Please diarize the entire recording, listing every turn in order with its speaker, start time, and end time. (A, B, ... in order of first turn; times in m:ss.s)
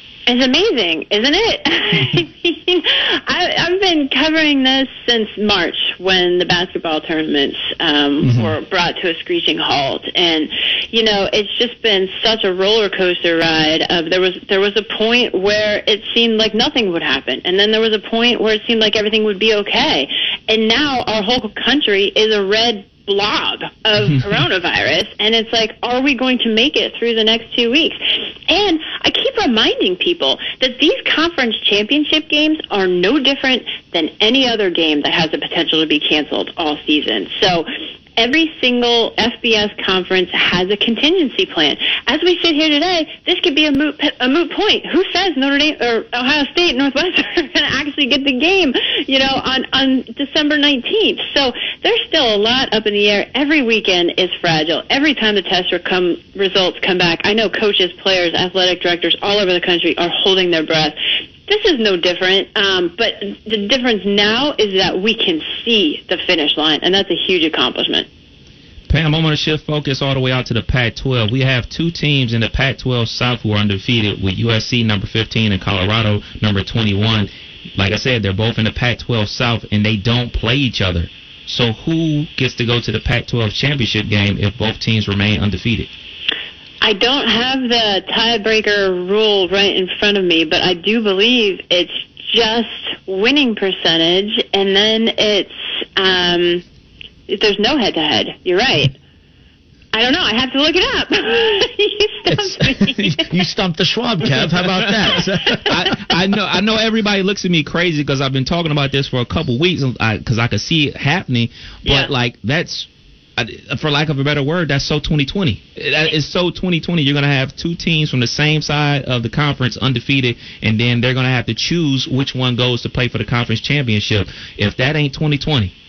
0:00.3-1:01.0 A
0:08.2-0:08.5 B
1:01.5-1:08.1 A
1:08.9-1:25.9 C
1:26.8-1:36.6 A
1:37.3-1:38.9 A
1:39.9-1:43.3 A
1:42.7-1:45.7 B
1:45.7-2:05.7 C
1:51.8-1:52.1 A